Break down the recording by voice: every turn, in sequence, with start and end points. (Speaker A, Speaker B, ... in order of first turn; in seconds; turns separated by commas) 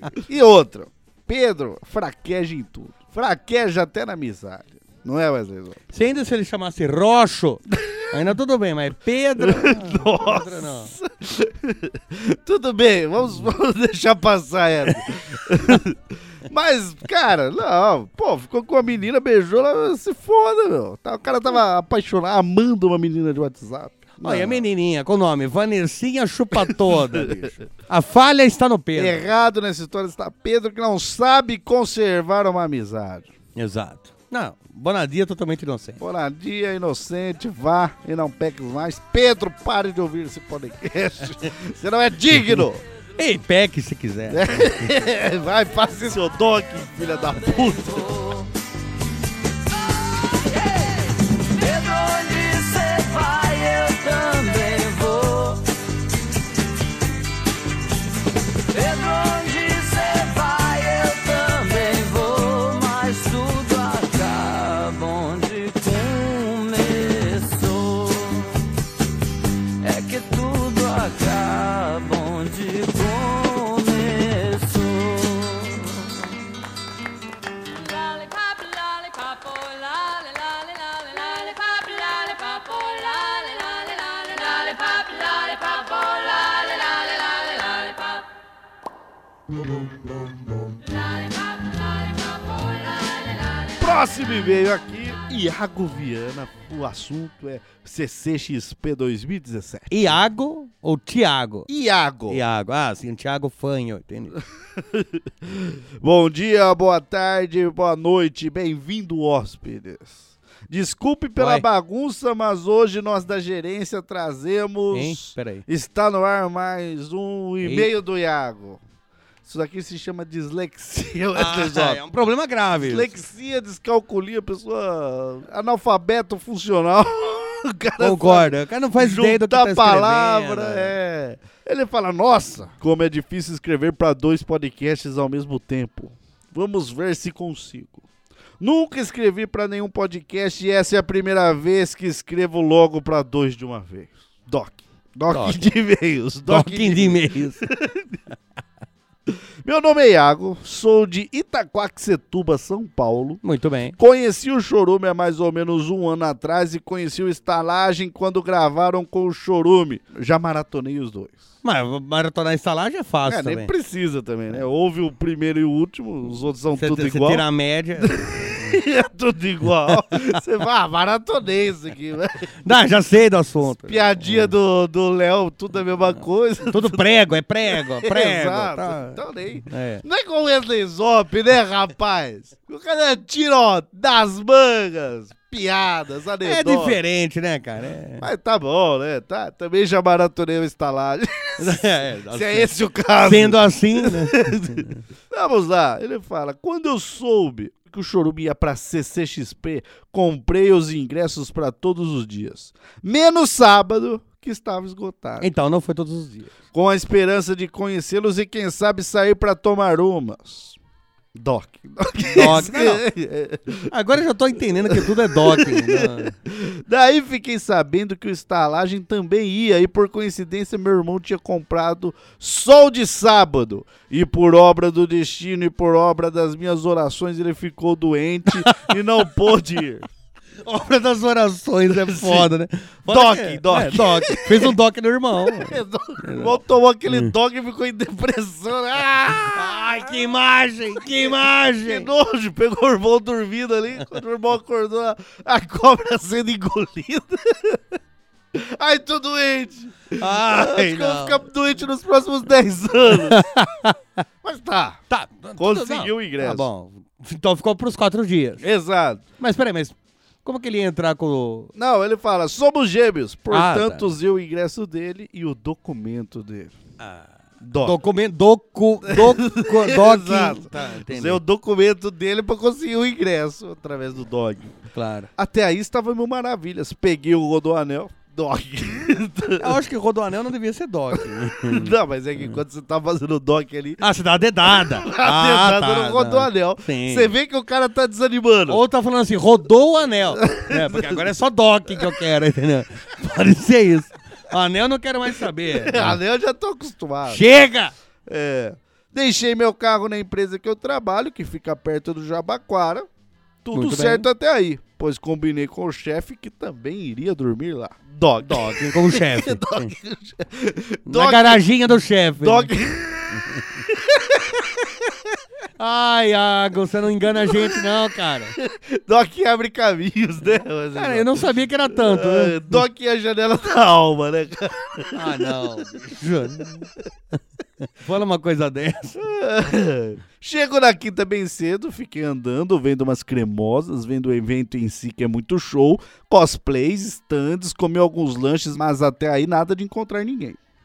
Speaker A: 0.1-5.8, Speaker B: 5.9-10.9, Speaker A: 7.7-8.1, Speaker A: 9.4-24.6, Speaker B: 24.2-29.2, Speaker A: 26.7-27.4, Speaker A: 28.9-33.3, Speaker B: 33.5-36.0, Speaker A: 36.0-42.8, Speaker B: 43.2-45.0, Speaker A: 44.3-48.2, Speaker C: 50.5-50.9, Speaker C: 51.5-55.7, Speaker C: 58.7-68.6, Speaker C: 69.8-76.2, Speaker D: 77.8-88.3, Speaker D: 90.8-93.9, Speaker A: 93.8-99.9, Speaker B: 99.9-101.7, Speaker A: 101.7-102.4, Speaker B: 102.3-104.4, Speaker A: 104.8-118.8, Speaker B: 111.4-111.6, Speaker B: 114.9-115.6, Speaker B: 117.6-117.9, Speaker A: 119.4-122.0, Speaker B: 121.3-123.1, Speaker A: 122.8-138.0, Speaker B: 128.0-130.9, Speaker A: 138.6-148.2, Speaker B: 145.3-145.6, Speaker B: 146.5-147.6, Speaker A: 149.3-153.4, Speaker B: 153.4-153.9, Speaker A: 154.0-161.4, Speaker B: 161.6-163.7, Speaker A: 163.3-167.4, Speaker B: 166.7-168.8, Speaker A: 168.0-172.5, Speaker B: 172.6-174.5, Speaker A: 173.7-187.0, Speaker B: 176.7-180.0, Speaker B: 186.4-188.2, Speaker A: 188.2-205.5, Speaker B: 191.6-192.7, Speaker B: 193.2-195.0, Speaker B: 205.4-206.5, Speaker A: 206.7-210.8, Speaker A: 211.3-213.9, Speaker B: 212.3-213.0, Speaker B: 213.9-216.3, Speaker A: 214.9-230.1, Speaker B: 228.6-228.9, Speaker B: 230.6-236.6, Speaker A: 231.9-232.5, Speaker A: 233.1-234.8, Speaker A: 235.4-240.2, Speaker B: 239.5-242.1, Speaker A: 241.1-248.0, Speaker A: 248.5-253.4, Speaker B: 250.2-251.4, Speaker B: 253.2-253.9, Speaker A: 254.4-255.0, Speaker B: 255.1-258.6, Speaker A: 255.6-256.7, Speaker A: 258.6-259.2, Speaker B: 259.4-261.7, Speaker A: 261.7-266.7, Speaker B: 263.5-264.1, Speaker B: 267.0-271.4, Speaker A: 267.6-268.0, Speaker A: 269.1-274.8, Speaker B: 274.9-275.3, Speaker A: 275.4-279.8, Speaker B: 279.6-282.5, Speaker A: 281.1-284.0, Speaker B: 284.0-287.3, Speaker A: 284.6-288.8, Speaker B: 288.7-296.2, Speaker A: 290.4-291.3, Speaker A: 295.6-297.4, Speaker B: 297.2-297.9, Speaker A: 298.2-303.1, Speaker A: 303.6-311.6, Speaker B: 303.7-304.3, Speaker B: 308.4-309.9, Speaker B: 311.1-312.7, Speaker A: 312.4-315.3, Speaker B: 315.8-318.6, Speaker A: 317.4-317.8, Speaker A: 318.6-325.7, Speaker B: 320.9-322.8, Speaker B: 325.1-326.9, Speaker B: 328.0-329.2, Speaker A: 329.2-340.6